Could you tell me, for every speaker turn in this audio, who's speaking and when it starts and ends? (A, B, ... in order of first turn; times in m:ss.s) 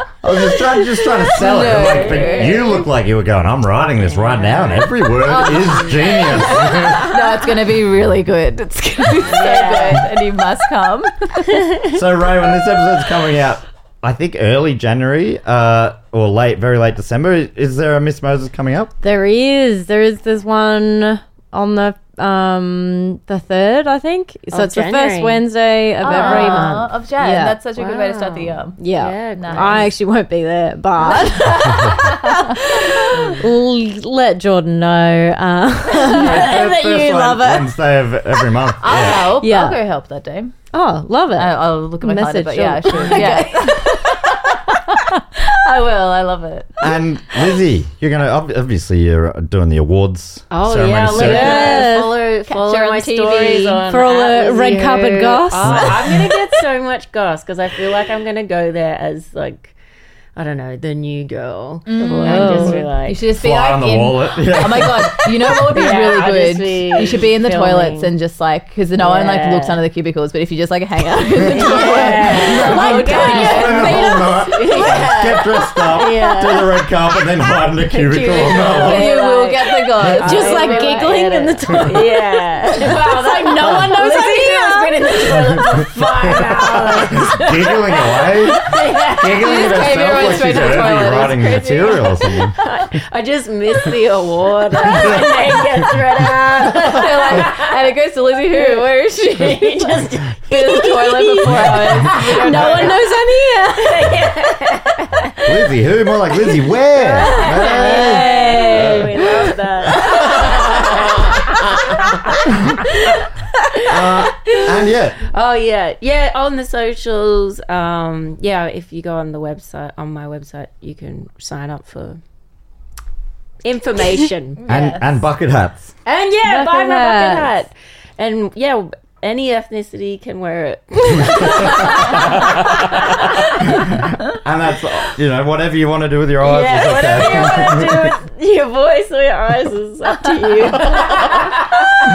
0:00.2-0:07.1 A
0:01.4-0:02.7 B
0:01.9-0:02.7 C
0:04.0-0:04.9 C
0:05.2-0:06.2 B
0:05.4-0:07.0 C
0:06.9-0:11.6 B
0:09.2-0:10.1 C
0:11.9-0:18.9 A
0:19.0-0:27.6 D
0:24.5-0:25.5 C
0:26.0-0:27.0 C
0:26.0-0:28.8 B
0:27.8-0:30.0 C
0:28.8-0:37.7 D
0:29.3-0:29.8 B
0:31.0-0:33.0 B
0:33.1-0:33.4 C
0:36.2-0:36.5 C
0:36.2-0:39.3 A
0:38.8-0:40.5 B
0:39.4-0:39.8 D
0:40.7-0:43.8 D
0:41.3-0:46.8 B
0:42.9-0:43.6 C
0:46.8-0:51.8 A
0:50.5-0:59.7 C
0:51.1-0:53.8 B
0:51.1-0:52.2 D
0:53.8-0:56.0 D
1:00.3-1:03.2 C
1:01.8-1:14.9 B
1:02.1-1:02.9 D
1:03.3-1:05.6 A
1:05.7-1:08.1 C
1:09.0-1:09.8 C
1:11.4-1:16.8 C
1:11.5-1:19.1 A
1:12.7-1:15.1 D
1:17.6-1:37.8 C
1:18.8-1:21.5 B
1:20.2-1:22.1 D
1:22.9-1:25.0 D
1:23.6-1:23.9 A
1:26.0-1:32.5 A
1:29.3-1:31.9 B
1:34.8-1:35.3 A
1:36.8-1:42.9 B
1:38.5-1:45.6 C
1:42.2-1:43.9 D
1:45.4-1:49.2 A
1:47.0-1:53.2 C
1:47.6-1:49.0 D
1:53.8-2:02.2 C
1:53.9-1:55.2 A
2:03.6-2:04.6 C
2:04.6-2:05.1 B
2:04.7-2:05.9 A
2:06.0-2:13.9 C
2:06.4-2:07.5 D
2:13.6-2:18.1 A
2:16.4-2:21.7 C